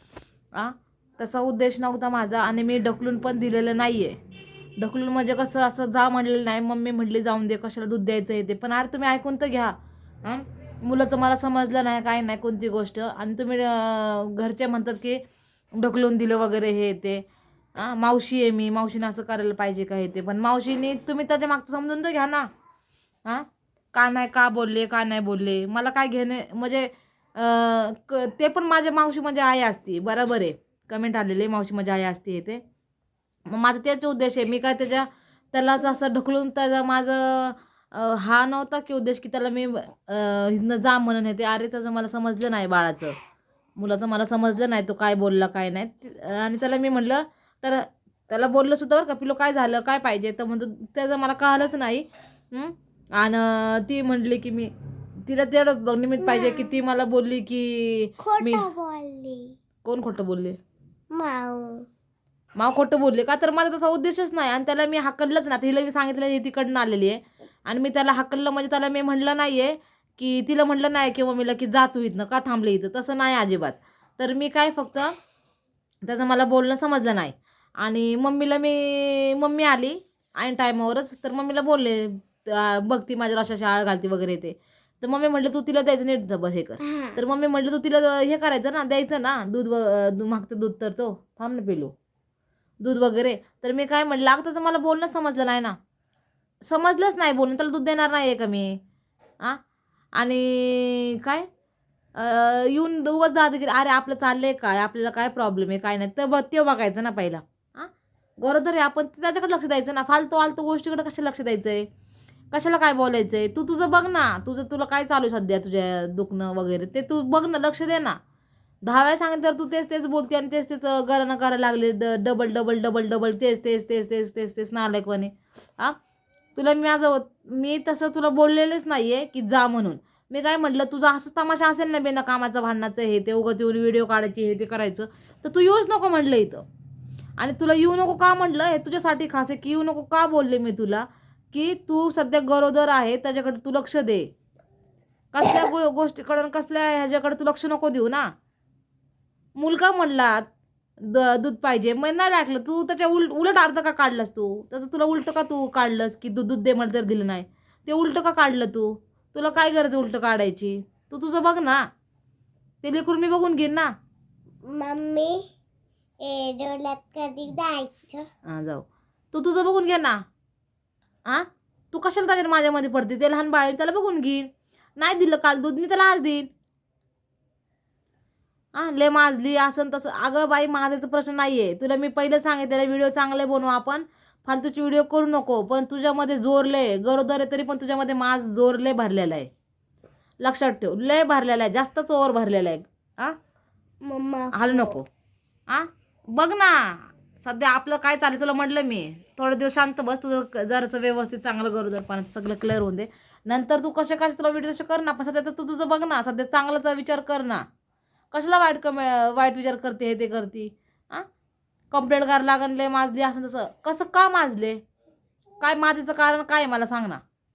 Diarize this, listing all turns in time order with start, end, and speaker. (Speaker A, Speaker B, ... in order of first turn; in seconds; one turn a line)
Speaker A: 0.5-4.2
Speaker A: 4.8-15.2
Speaker A: 15.8-17.2
Speaker A: 17.8-22.5
Speaker A: 23.2-32.6
Speaker A: 33.5-43.1
Speaker A: 43.8-54.7
Speaker A: 55.3-58.7
Speaker B: 56.2-56.8
Speaker B: 58.2-59.5
Speaker A: 59.8-60.6
Speaker B: 61.1-61.9
Speaker A: 62.6-75.1
Speaker A: 76.0-91.9
Speaker B: 86.8-87.2
Speaker A: 92.8-95.8
Speaker A: 96.6-98.8
Speaker A: 100.2-101.5
Speaker A: 102.2-107.9
Speaker A: 108.4-111.9
Speaker A: 112.5-118.2
Speaker A: 118.8-126.0
Speaker A: 126.5-136.6
Speaker A: 137.4-144.3
Speaker A: 145.3-148.3
Speaker A: 149.6-150.4
Speaker A: 151.0-161.9
Speaker A: 162.8-163.9
Speaker B: 164.7-165.4
Speaker B: 166.2-168.3
Speaker A: 168.5-170.2
Speaker A: 171.3-176.5
Speaker A: 178.8-189.5
Speaker A: 190.4-193.4
Speaker B: 194.0-195.0
Speaker A: 194.5-195.1
Speaker A: 195.7-207.7
Speaker A: 208.3-211.3
Speaker A: 211.9-214.8
Speaker A: 215.6-217.2